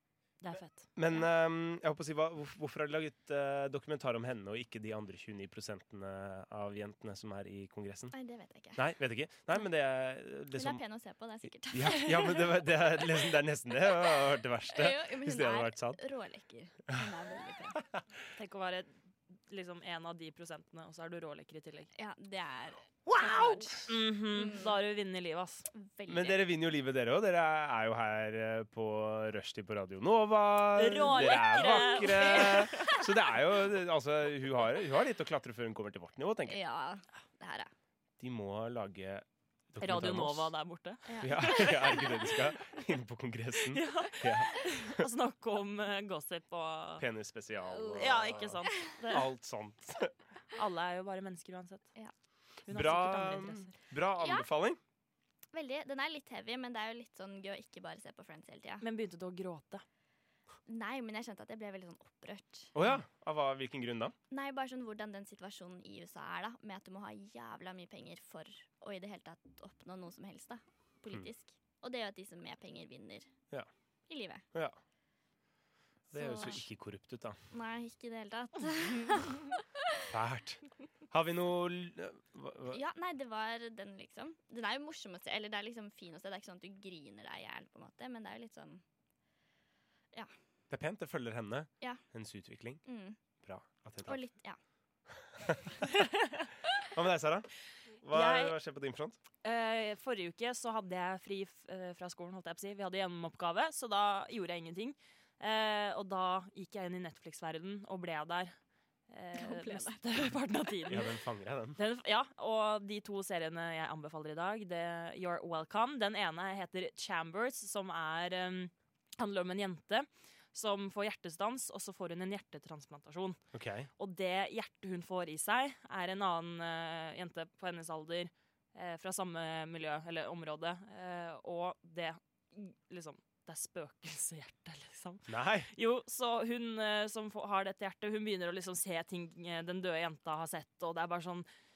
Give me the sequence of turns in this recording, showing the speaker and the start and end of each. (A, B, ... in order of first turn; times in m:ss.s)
0:00.4-0:00.9 A
0:01.0-0:08.1 B
0:08.1-0:08.8 C
0:08.8-0:10.8 B
0:10.5-0:13.1 C
0:11.7-0:16.0 B
0:13.9-0:14.2 C
0:14.7-0:17.8 C
0:18.4-0:18.9 A
0:19.5-0:21.9 A
0:21.9-0:24.8 C
0:23.1-0:25.7 A
0:25.7-0:26.4 C
0:26.1-0:36.6 B
0:30.8-0:33.1 A
0:31.1-0:33.1 C
0:36.4-0:37.7 C
0:38.2-0:40.5 B
0:39.8-0:42.4 A
0:41.1-0:42.3 C
0:41.2-0:45.0 B
0:43.7-0:47.0 A
0:47.0-0:50.1 B
0:47.6-0:49.2 C
0:48.0-0:49.2 A
0:50.5-0:51.9 A
0:52.7-0:53.7 A
0:52.7-0:54.8 B
0:54.2-0:54.5 C
0:55.5-0:58.8 C
0:58.8-0:59.8 A
1:00.6-1:02.7 C
1:02.7-1:04.1 B
1:04.3-1:13.3 C
1:14.1-1:14.4 C
1:16.1-1:17.4 B
1:16.1-1:16.6 C
1:17.5-1:20.0 C
1:20.1-1:22.8 B
1:22.7-1:28.8 C
1:30.7-1:32.8 B
1:32.8-1:33.2 C
1:33.4-1:34.2 B
1:34.0-1:34.6 C
1:35.4-1:35.7 B
1:36.8-1:39.2 B
1:38.1-1:38.5 A
1:39.4-1:48.5 A
1:49.1-1:51.1 A
1:49.3-1:50.0 C
1:50.9-1:51.8 B
1:51.8-2:03.4 A
2:03.5-2:03.9 B
2:04.0-2:21.5 A
2:15.3-2:15.7 B